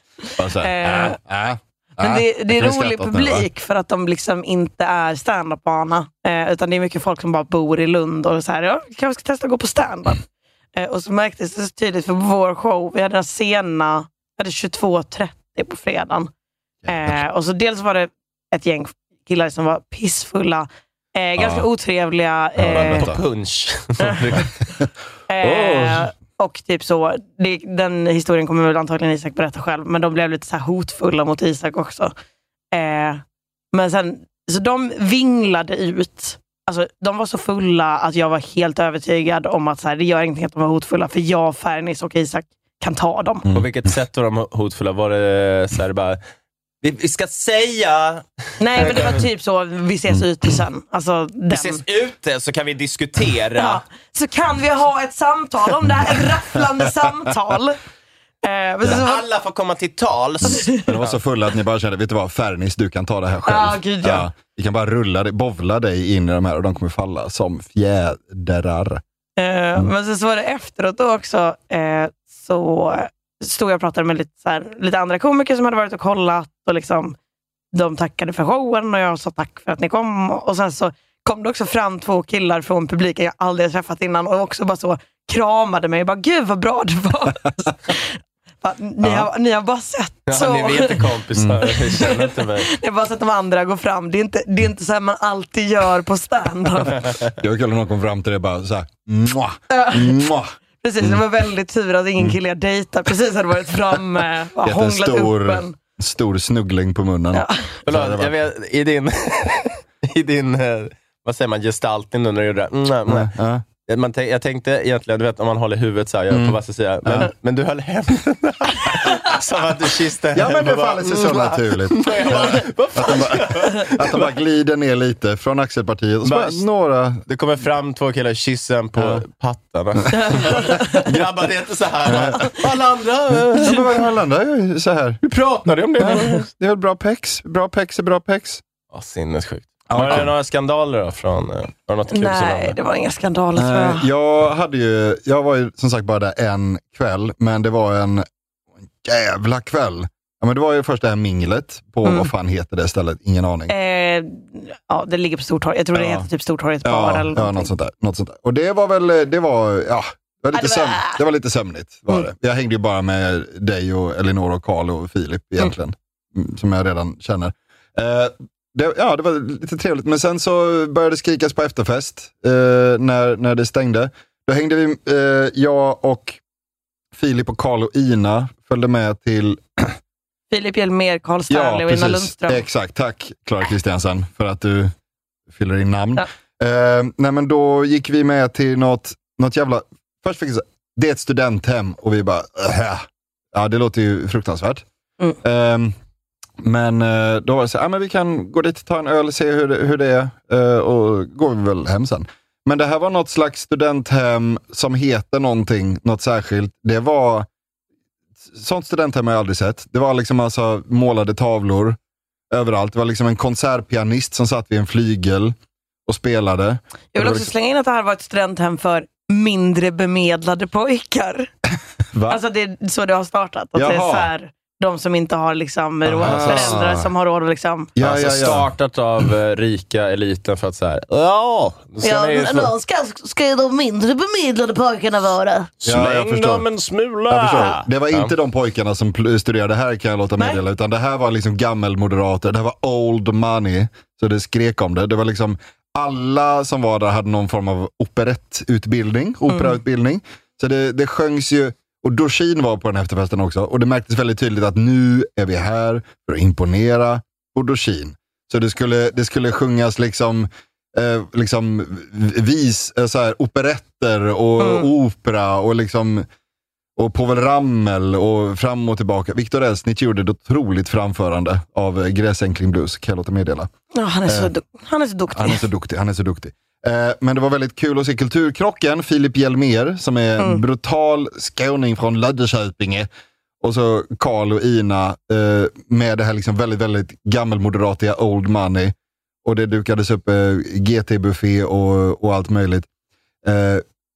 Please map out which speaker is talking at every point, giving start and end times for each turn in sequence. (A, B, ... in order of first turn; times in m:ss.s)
0:00.4-0:03.4 A
0:00.6-0:01.2 B
0:02.0-0:10.2 B
0:10.8-0:16.3 B
0:16.8-0:17.2 A
0:16.9-0:23.1 B
0:21.4-0:21.6 A
0:22.6-0:23.2 A
0:22.6-0:24.5 C
0:24.0-0:24.4 B
0:25.3-0:32.1 B
0:25.4-0:26.1 A
0:32.7-0:33.2 B
0:33.7-0:43.4 B
0:43.5-0:46.2 C
0:46.8-0:49.2 C
0:48.6-0:51.8 B
0:51.5-0:53.8 C
0:53.6-0:57.8 B
0:58.4-0:59.2 B
0:58.9-1:01.2 C
1:00.4-1:09.0 A
1:00.5-1:00.8 B
1:03.4-1:04.3 B
1:09.4-1:17.2 B
1:17.7-1:31.1 B
1:30.3-1:32.7 C
1:31.4-1:31.8 A
1:31.9-1:37.0 B
1:37.4-1:41.2 A
1:39.7-1:40.3 B
1:40.8-1:45.7 B
1:44.6-1:48.3 A
1:47.3-1:47.7 B
1:47.8-1:53.3 C
1:53.1-1:53.6 A
1:53.8-2:04.3 C
1:56.3-1:57.3 A
2:00.3-2:07.2 A
2:06.2-2:06.6 C
2:07.2-2:13.9 C
2:09.0-2:09.2 A
2:10.1-2:11.0 B
2:12.0-2:12.5 A
2:13.5-2:15.2 A
2:15.2-2:16.5 C
2:16.0-2:18.6 A
2:18.9-2:22.8 C
2:19.9-2:20.3 A
2:22.1-2:24.1 B
2:23.6-2:28.2 A
2:29.0-2:33.7 A
2:32.0-2:32.3 B
2:33.7-2:37.7 B
2:35.9-2:36.3 A
2:36.8-2:56.4 A
2:40.5-2:41.2 B
2:57.1-3:00.0 A
3:00.5-3:02.6 B
3:01.5-3:04.9 A
3:05.5-3:14.8 A
3:15.4-3:15.9 A
3:16.6-3:27.5 A
3:28.5-3:32.0 A
3:32.5-3:35.5 A
3:36.1-3:37.5 A
3:37.1-3:41.5 B
3:42.1-3:42.4 A
3:42.3-3:47.9 B
3:43.8-3:44.3 A
3:46.0-3:47.1 A
3:46.2-3:46.7 C
3:48.0-3:48.7 A
3:48.0-3:52.7 C
3:52.0-3:55.7 B
3:55.8-3:58.3 C
3:55.8-3:56.6 A
3:57.3-4:26.2 A
4:09.5-4:09.8 B
4:24.6-4:24.9 B
4:27.0-4:33.7 A
4:33.9-4:35.6 B
4:35.3-4:43.1 A
4:43.6-4:52.9 A
4:53.4-4:53.8 A